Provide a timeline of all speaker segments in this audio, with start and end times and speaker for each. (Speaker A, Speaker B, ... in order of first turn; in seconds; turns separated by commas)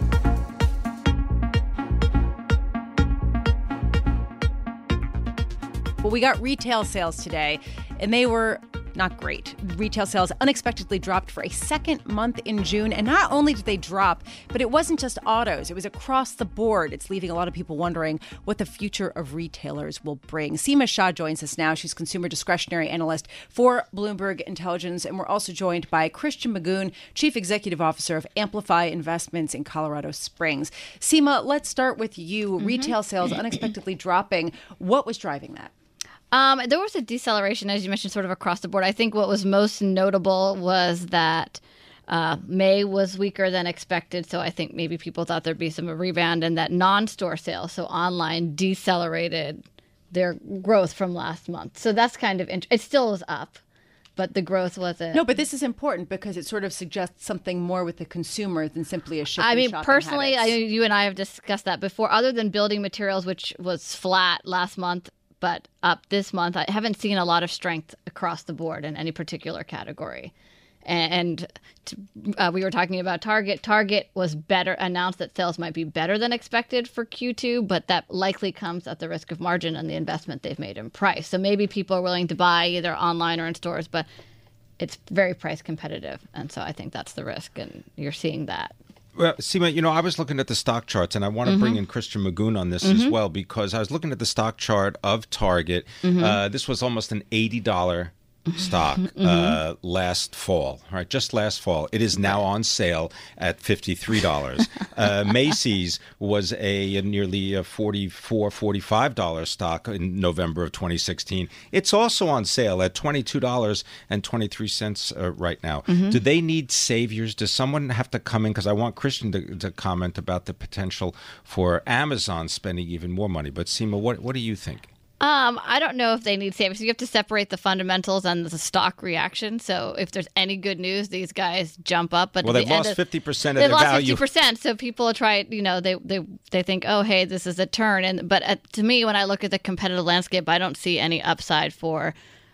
Speaker A: 6.0-35.7, Speaker B: 32.6-32.9, Speaker B: 36.3-53.6, Speaker B: 54.2-55.3, Speaker A: 55.1-60.5, Speaker B: 59.4-70.3, Speaker B: 70.8-84.1, Speaker B: 84.8-88.7, Speaker C: 89.2-124.9, Speaker B: 91.5-91.8, Speaker B: 92.8-93.2, Speaker B: 96.0-96.4, Speaker B: 98.6-99.6, Speaker B: 115.9-116.2, Speaker B: 125.2-133.0, Speaker C: 132.4-134.2, Speaker B: 133.5-142.1